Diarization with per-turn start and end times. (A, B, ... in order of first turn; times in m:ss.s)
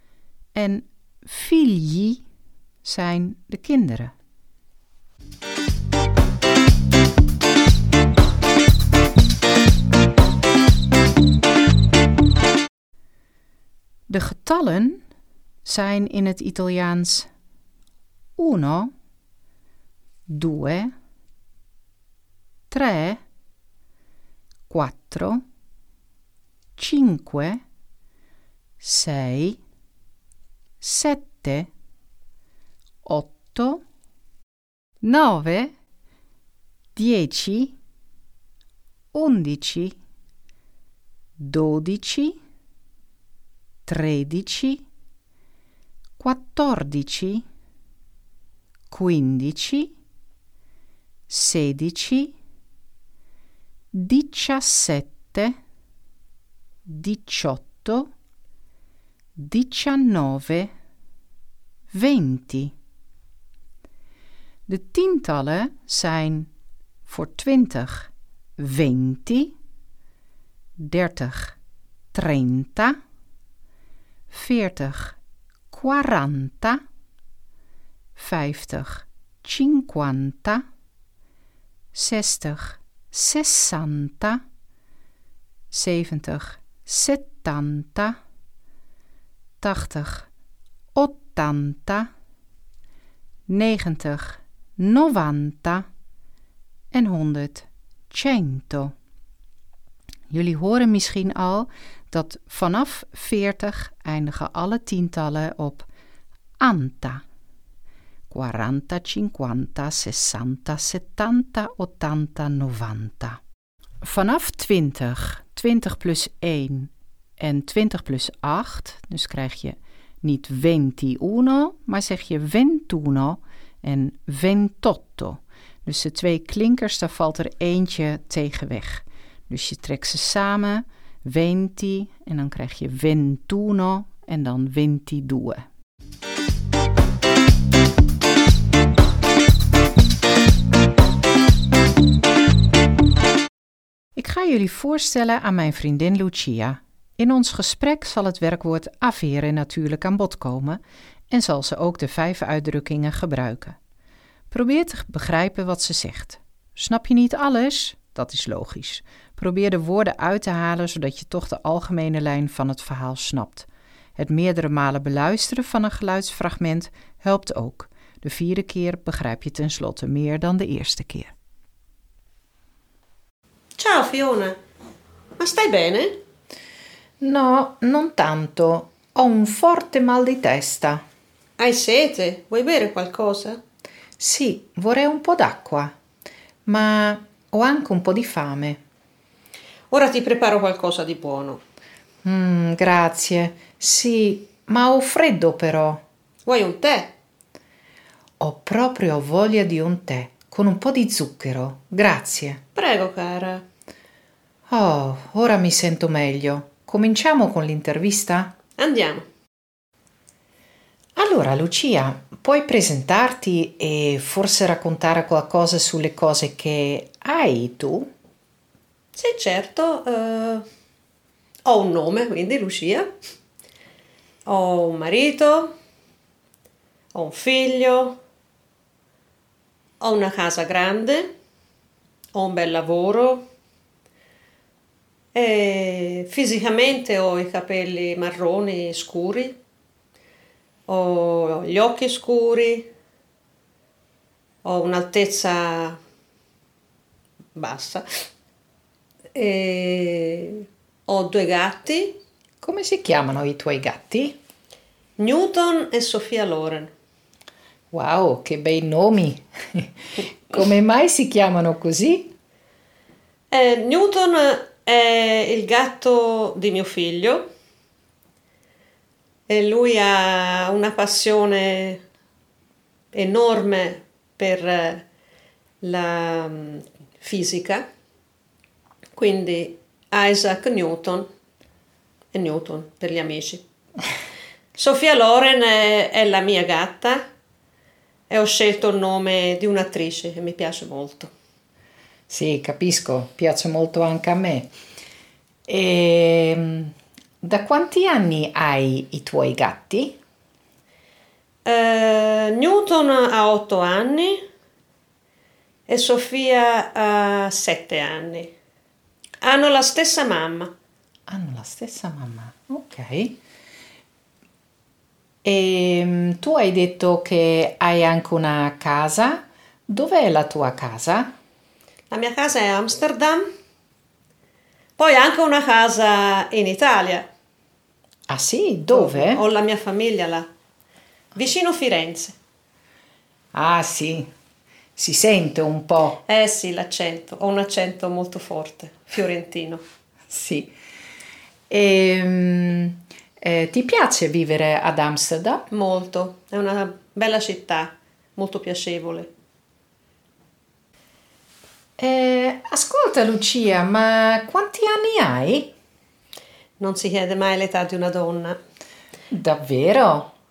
0:00.5-0:02.2 A
0:02.8-0:04.1 A
0:14.1-0:15.0 A
0:15.6-0:17.3 A
0:18.4-0:18.9 A
0:20.3-0:20.9 A
0:22.7-0:23.2 A
0:24.7-0:25.4 A
0:26.8-0:27.6 A
0:28.8-0:29.6 A
0:30.8-0:31.7 A
0:33.0-0:33.8 A
0:35.0-0:35.7 A
0:37.0-0:37.8 A
0:39.1-0:40.0 A
0:41.4-0:42.4 A
0:43.9-0:44.8 A
0:46.2-0:47.4 A
0:48.9-0:49.9 A
0:51.3-0:52.3 A
0:53.9-0:55.6 A
0:56.9-0:58.1 A
0:59.4-1:00.7 A
1:01.9-1:02.7 A
1:04.7-1:06.5 A
1:07.1-1:09.5 A
1:10.8-1:11.6 A
1:12.1-1:13.0 A
1:14.3-1:15.2 A
1:15.7-1:16.8 A
1:18.2-1:20.6 A
1:21.9-1:24.4 A
1:25.7-1:28.2 A
1:29.6-1:30.3 A
1:30.9-1:32.1 A
1:33.5-1:35.9 A
1:36.9-1:38.9 A
1:40.3-1:45.9 A
1:46.6-1:47.2 A
1:48.3-1:53.4 A
1:54.0-2:15.6 A
2:24.2-2:33.8 A
2:34.5-2:51.3 A
2:53.8-2:54.6 B
2:55.4-2:56.1 B
2:57.2-3:01.0 A
3:01.6-3:03.6 B
3:04.2-3:05.9 A
3:06.6-3:08.8 A
3:09.9-3:11.6 B
3:12.2-3:16.0 A
3:16.4-3:17.1 B
3:18.4-3:22.6 A
3:22.7-3:23.6 B
3:24.7-3:28.6 A
3:28.8-3:29.2 B
3:31.2-3:38.1 A
3:39.1-3:40.6 B
3:41.6-3:43.1 B
3:44.4-3:45.7 B
3:47.1-3:48.2 B
3:50.0-3:51.3 B
3:52.3-3:53.4 B
3:55.3-3:59.6 B
4:00.9-4:02.9 B
4:04.6-4:06.0 B
4:07.6-4:08.0 B
4:09.3-4:12.2 B
4:12.6-4:14.4 A
4:15.2-4:16.9 B
4:17.9-4:19.9 A
4:20.4-4:22.3 A
4:23.5-4:27.4 B
4:29.5-4:32.0 B
4:33.1-4:35.0 B
4:35.8-4:37.8 B
4:39.2-4:41.3 B
4:42.3-4:43.6 B
4:44.8-4:47.2 B
4:48.3-4:51.3 B
4:52.3-4:54.7 A
4:55.7-5:00.2 A
5:01.6-5:04.4 B
5:05.9-5:08.5 B
5:09.4-5:10.7 B
5:11.3-5:13.4 A
5:15.4-5:21.3 A
5:22.1-5:23.4 B
5:25.0-5:27.2 B
5:28.3-5:29.4 A
5:28.9-5:30.4 B
5:31.3-5:32.3 B
5:33.5-5:34.3 A
5:35.0-5:36.2 A
5:36.2-5:39.8 B
5:40.3-5:40.7 A
5:41.7-5:45.7 A
5:45.7-5:49.3 B
5:52.0-5:55.7 A
5:56.8-5:58.6 B
5:59.3-6:00.3 A